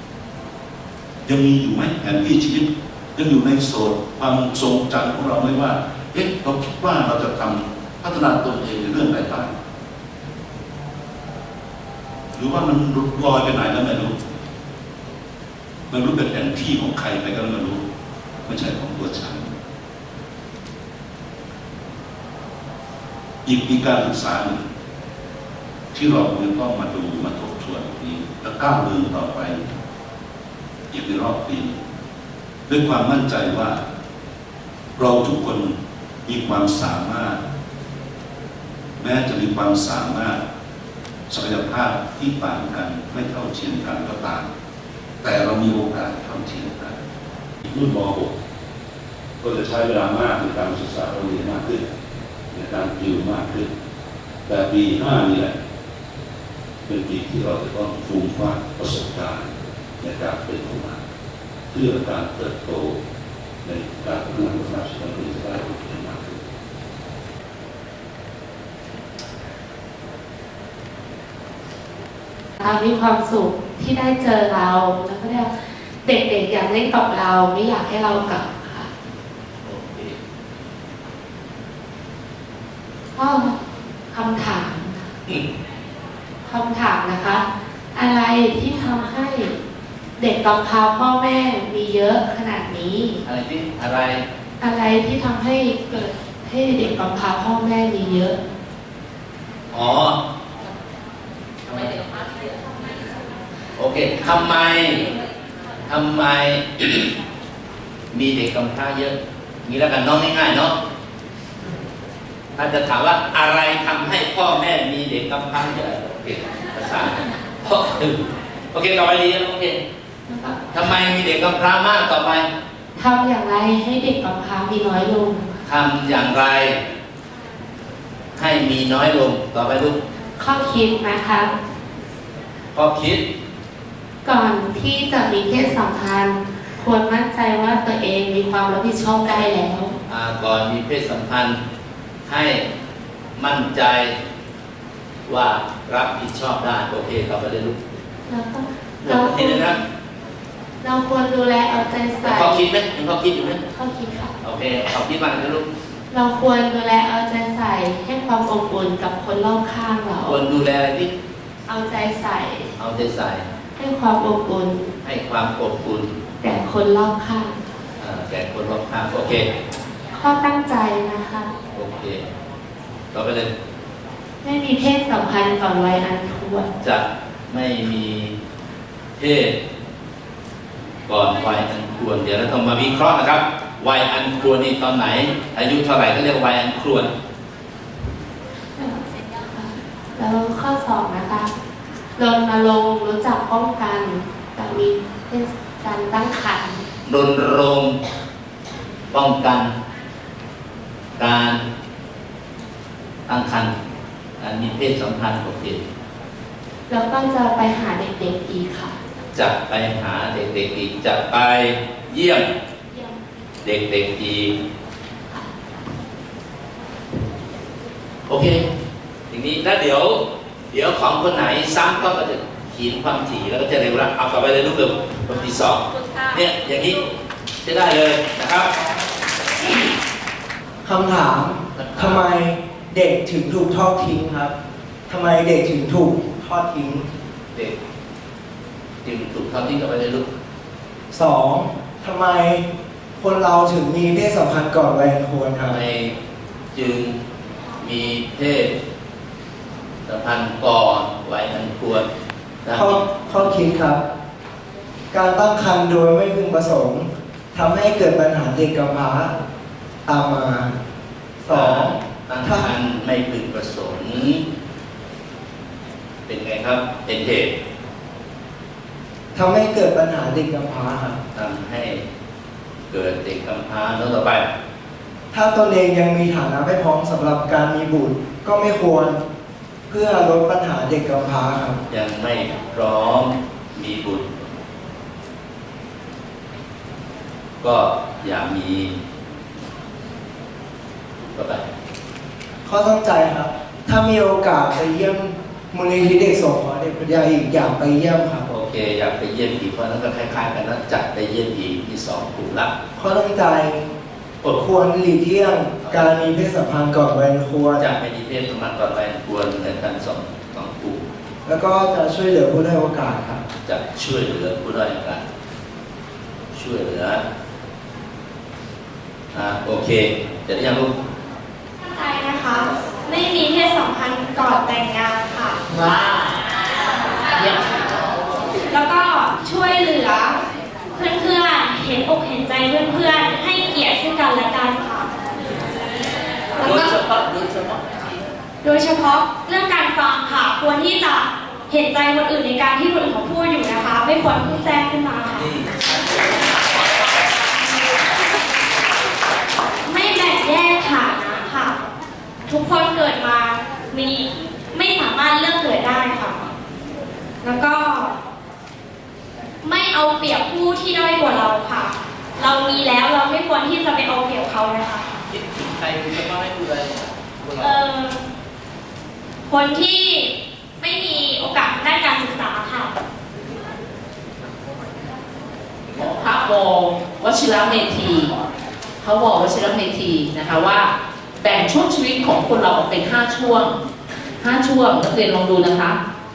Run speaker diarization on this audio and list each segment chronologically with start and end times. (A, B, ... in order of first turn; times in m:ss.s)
0:01.2-0:09.5 A
0:12.3-0:14.1 A
0:15.9-0:17.8 A
0:18.4-0:19.5 A
0:23.4-0:24.6 A
0:25.9-0:29.6 A
0:30.9-0:31.7 A
0:32.7-0:33.8 A
0:35.0-0:37.4 A
0:39.0-0:40.4 A
0:41.3-0:44.5 A
0:45.2-0:47.0 A
0:47.6-0:48.3 A
0:49.4-0:51.8 A
0:52.5-0:53.7 A
0:54.5-0:55.5 A
0:56.8-1:01.0 A
1:01.7-1:03.0 A
1:03.6-1:06.4 A
1:12.6-1:18.9 B
1:19.6-1:20.2 C
1:23.1-1:25.0 B
1:26.4-1:29.6 B
1:30.2-1:33.2 B
1:33.2-1:34.2 C
1:34.6-1:38.4 B
1:39.7-1:40.2 C
1:41.7-1:41.9 C
1:43.8-1:45.1 C
1:45.8-1:47.1 C
1:48.1-1:50.8 C
1:52.6-1:59.8 C
2:00.3-2:00.6 B
2:00.7-2:02.5 C
2:03.0-2:05.6 B
2:05.6-2:06.8 C
2:08.3-2:10.0 C
2:10.4-2:11.5 B
2:12.7-2:13.2 C
2:14.2-2:19.9 B
2:20.1-2:21.6 C
2:22.2-2:22.6 C
2:23.4-2:24.2 C
2:25.3-2:27.8 C
2:28.3-2:29.7 B
2:29.0-2:29.8 C
2:30.8-2:32.6 B
2:32.2-2:33.6 C
2:33.8-2:34.3 B
2:34.4-2:35.6 C
2:36.1-2:40.4 B
2:40.2-2:41.1 C
2:41.7-2:42.7 B
2:42.8-2:43.4 C
2:43.8-2:44.9 B
2:45.0-2:46.1 C
2:46.4-2:47.5 B
2:48.0-2:49.4 C
2:50.1-2:51.5 B
2:51.7-2:52.2 C
2:53.1-2:53.5 C
2:54.4-2:56.7 B
2:56.8-2:58.3 C
2:59.2-2:59.6 C
3:01.1-3:07.1 C
3:09.5-3:11.5 B
3:12.2-3:16.8 B
3:17.0-3:18.0 C
3:19.1-3:19.7 C
3:21.2-3:21.6 C
3:23.3-3:23.7 C
3:24.4-3:25.8 C
3:26.9-3:28.9 B
3:29.3-3:32.5 C
3:32.9-3:33.2 B
3:33.6-3:34.5 C
3:38.3-3:38.6 C
3:39.3-3:47.0 C
3:47.6-3:48.7 C
3:50.8-3:54.5 D
3:51.7-3:52.2 C
3:55.1-3:57.0 D
3:59.0-4:00.3 C
4:01.1-4:02.6 D
4:03.2-4:05.8 D
4:05.6-4:06.1 C
4:06.7-4:07.2 C
4:07.8-4:08.7 C
4:10.0-4:12.0 C
4:12.6-4:13.6 C
4:12.7-4:14.0 D
4:15.1-4:19.3 D
4:20.0-4:20.7 D
4:21.4-4:22.7 D
4:21.5-4:24.4 C
4:26.2-4:27.5 C
4:29.3-4:31.2 D
4:31.3-4:32.0 C
4:32.9-4:34.5 C
4:35.3-4:39.2 D
4:39.9-4:41.8 D
4:41.9-4:44.2 C
4:47.6-4:49.0 C
4:51.3-4:51.6 C
4:52.6-4:58.4 D
4:58.4-5:02.7 C
5:02.9-5:03.8 D
5:04.4-5:07.8 D
5:05.8-5:06.2 C
5:07.8-5:11.0 C
5:11.4-5:13.4 D
5:13.6-5:15.2 C
5:16.5-5:17.2 C
5:19.3-5:20.9 C
5:21.8-5:25.6 E
5:25.7-5:26.3 F
5:28.7-5:30.4 E
5:30.9-5:35.1 E
5:36.6-5:38.0 C
5:36.6-5:36.9 E
5:38.6-5:45.5 E
5:45.3-5:45.9 C
5:49.8-5:51.8 E
5:52.5-5:56.4 E
5:57.4-5:58.1 E
5:59.6-6:05.0 E
6:05.3-6:07.7 C
6:07.6-6:08.2 E
6:09.5-6:12.9 E
6:15.9-6:18.3 F
6:19.0-6:20.9 F
6:21.4-6:23.8 F
6:24.4-6:26.0 F